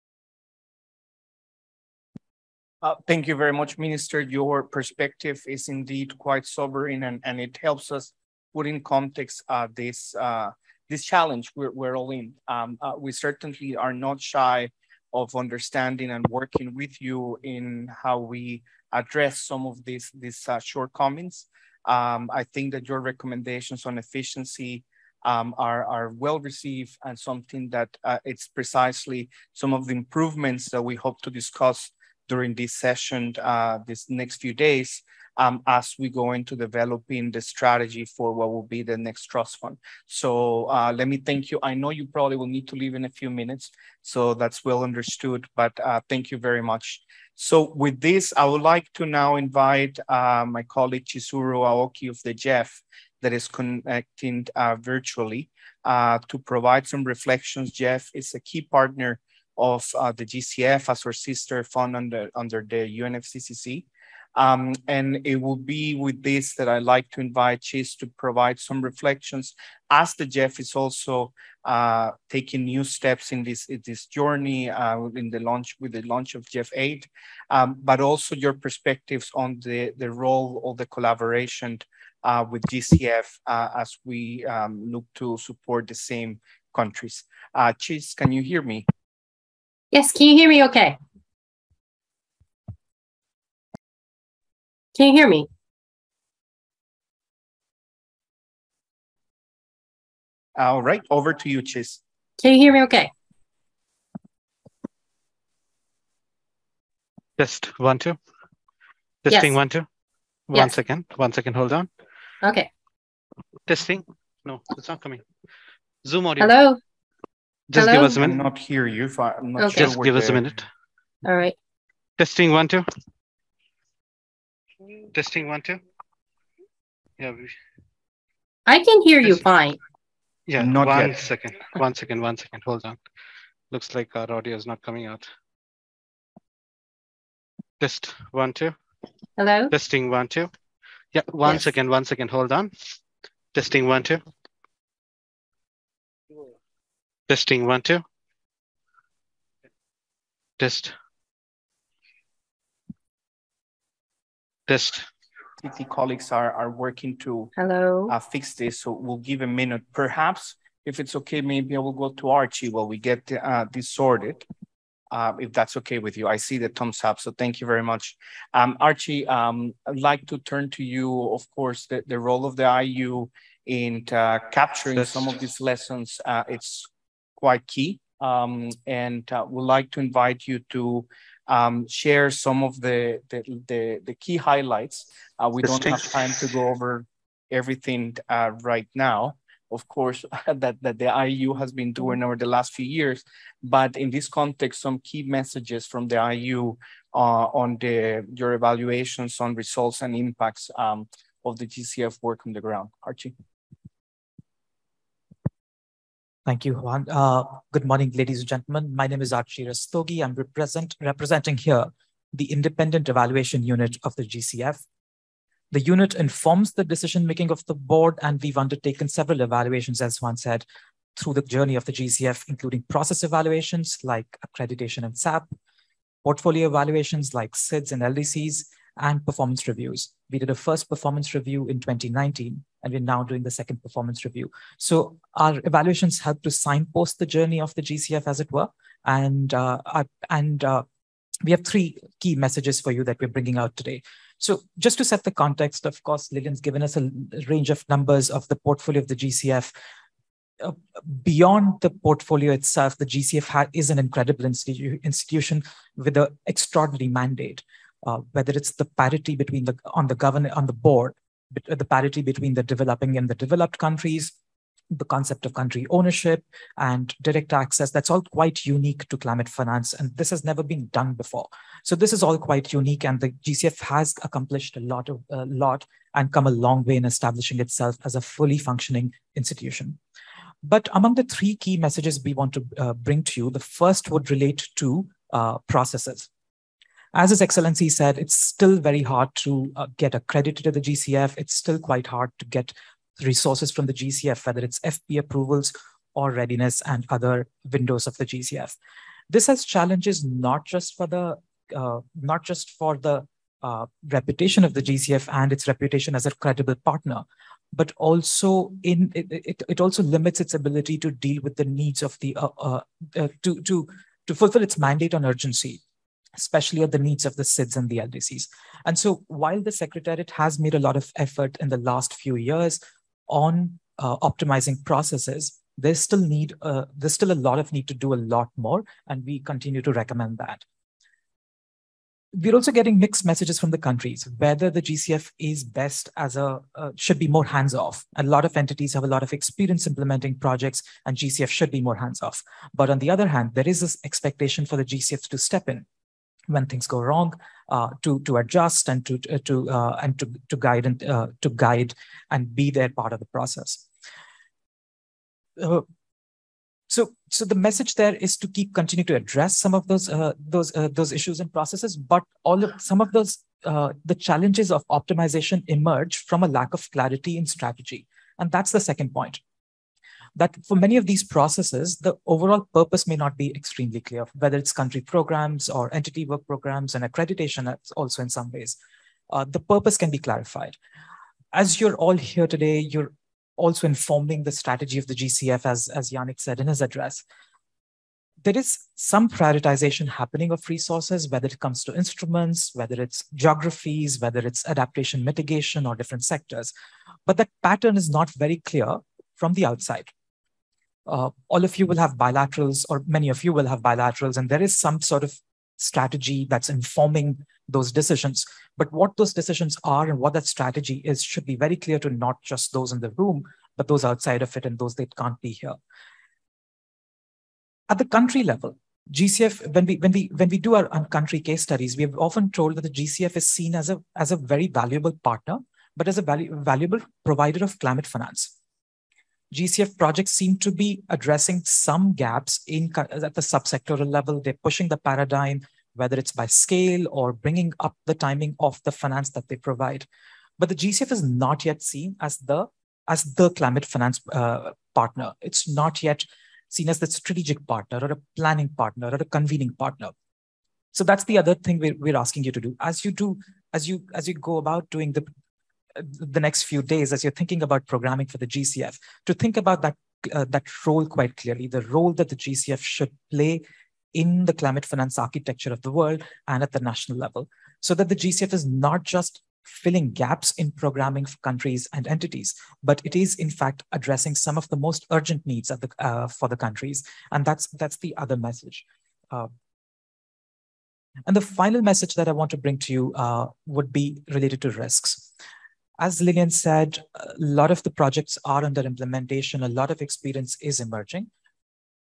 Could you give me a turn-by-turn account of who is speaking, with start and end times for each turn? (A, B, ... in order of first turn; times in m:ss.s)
0:02.8-1:28.8 A
1:29.9-1:31.0 B
1:34.9-1:35.5 B
1:40.6-1:42.0 A
1:42.4-1:43.1 B
1:47.4-1:48.2 C
1:49.2-1:49.8 C
1:49.3-1:49.6 B
1:50.5-1:51.9 C
1:52.4-1:52.7 B
1:53.7-1:55.2 C
1:56.0-1:56.5 C
1:56.4-1:56.8 B
1:57.7-1:58.4 C
1:57.7-1:58.2 B
1:58.2-2:00.5 A
1:59.6-1:59.9 B
1:59.7-2:00.7 C
2:01.2-2:01.6 B
2:02.2-2:02.8 C
2:05.1-2:05.8 C
2:07.2-2:07.6 C
2:08.7-2:09.8 B
2:10.5-2:13.0 C
2:10.6-2:11.3 A
2:13.7-2:15.3 C
2:17.8-2:18.8 C
2:19.4-2:19.7 B
2:19.7-2:20.5 C
2:21.1-2:22.7 C
2:23.5-2:24.2 C
2:27.3-2:28.0 C
2:30.6-2:30.9 C
2:34.7-2:35.0 C
2:35.6-2:37.5 A
2:37.6-2:38.1 B
2:38.1-2:44.4 A
2:45.1-3:23.3 A
3:26.4-3:34.8 D
3:35.7-3:40.6 D
3:41.2-3:45.5 D
3:46.2-4:00.8 D
4:01.4-4:09.7 D
4:10.6-4:24.3 D
4:24.9-4:40.0 D
4:40.6-4:46.3 D
4:47.1-4:58.8 D
4:59.3-5:15.8 D
5:16.4-5:30.6 D
5:32.3-5:45.8 D
5:46.5-5:53.8 D
5:55.6-5:55.8 D
5:56.9-6:09.4 D
6:10.4-6:18.8 D
6:19.3-6:20.8 D
6:21.5-6:27.2 D
6:28.4-6:36.7 D
6:37.2-6:40.1 D
6:41.0-6:55.8 D
6:57.9-7:08.5 D
7:09.5-7:20.1 D
7:20.6-7:30.1 D
7:30.9-7:35.3 D
7:36.0-7:59.5 D
8:01.2-8:05.3 D
8:06.0-8:11.3 D